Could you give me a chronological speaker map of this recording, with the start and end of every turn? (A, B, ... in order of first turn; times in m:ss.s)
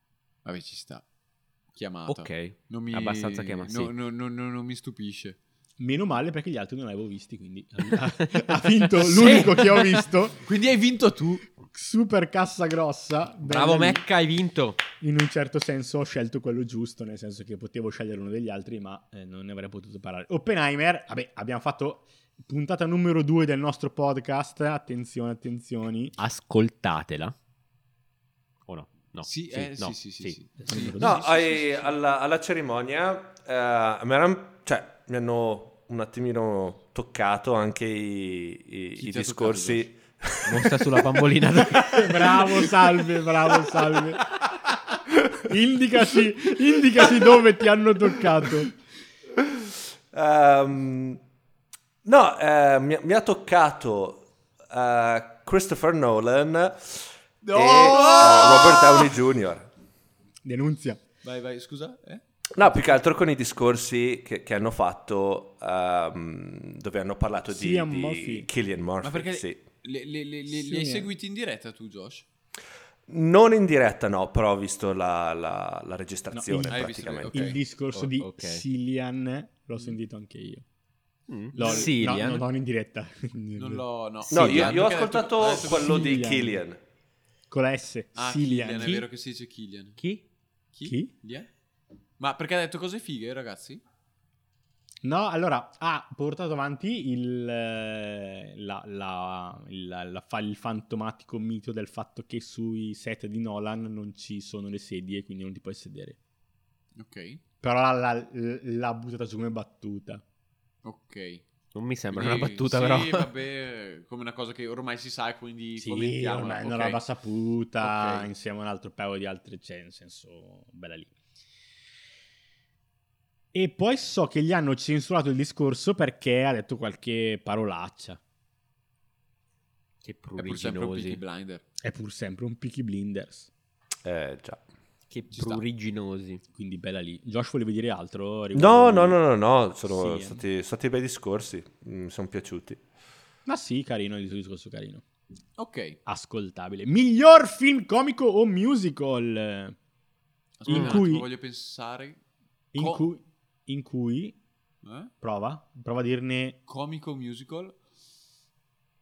0:00.4-0:01.0 A
0:01.7-0:05.4 A
0:02.1-0:03.9 B
0:05.8-0:10.4 C
0:09.0-0:09.6 B
0:09.0-0:09.8 A
0:10.4-0:11.4 A
0:11.7-0:14.0 C
0:13.4-0:14.8 B
0:15.0-0:26.2 C
0:26.2-0:27.3 B
0:28.6-0:30.4 B
0:29.2-0:31.9 A
0:30.6-0:31.2 C
0:31.0-0:41.3 D
0:39.0-0:39.8 A
0:40.4-0:42.4 B
0:41.8-0:44.2 C
0:45.5-0:48.7 C
0:49.4-0:51.2 D
0:52.0-0:59.7 D
0:57.4-0:59.1 A
1:00.4-1:01.0 C
1:01.2-1:02.7 A
1:02.5-1:09.6 D
1:07.5-1:08.5 C
1:09.0-1:12.2 A
1:10.5-1:11.1 C
1:13.1-1:17.5 D
1:16.3-1:20.6 C
1:16.7-1:17.6 A
1:17.9-1:18.6 B
1:21.3-1:22.4 B
1:21.5-1:21.9 A
1:21.5-1:24.9 C
1:23.6-1:26.1 A
1:24.3-1:26.8 D
1:25.6-1:26.6 C
1:27.5-1:29.0 C
1:28.2-1:30.0 A
1:30.7-1:31.5 A
1:30.8-1:31.1 C
1:32.2-1:33.8 A
1:35.0-1:46.2 C
1:47.0-1:47.4 A
1:47.6-1:50.2 C
1:50.8-1:51.4 A
1:51.7-1:53.3 B
1:52.1-1:57.0 A
1:55.8-2:01.1 C
1:57.8-1:58.3 A
2:03.5-2:08.2 C
2:10.0-2:11.2 B
2:10.4-2:11.6 A
2:11.8-2:13.5 C
2:14.0-2:14.6 D
2:15.1-2:16.4 B
2:15.3-2:15.6 A
2:16.5-2:19.2 C
2:18.5-2:22.8 D
2:19.9-2:20.4 C
2:23.4-2:25.0 C
2:25.6-2:26.0 A
2:26.0-2:29.8 C
2:30.6-2:32.2 A
2:30.6-2:31.3 C
2:30.7-2:31.0 B
2:32.7-2:34.4 C
2:32.8-2:33.0 A
2:34.8-2:35.1 A
2:35.2-2:36.6 C
2:36.7-2:37.8 A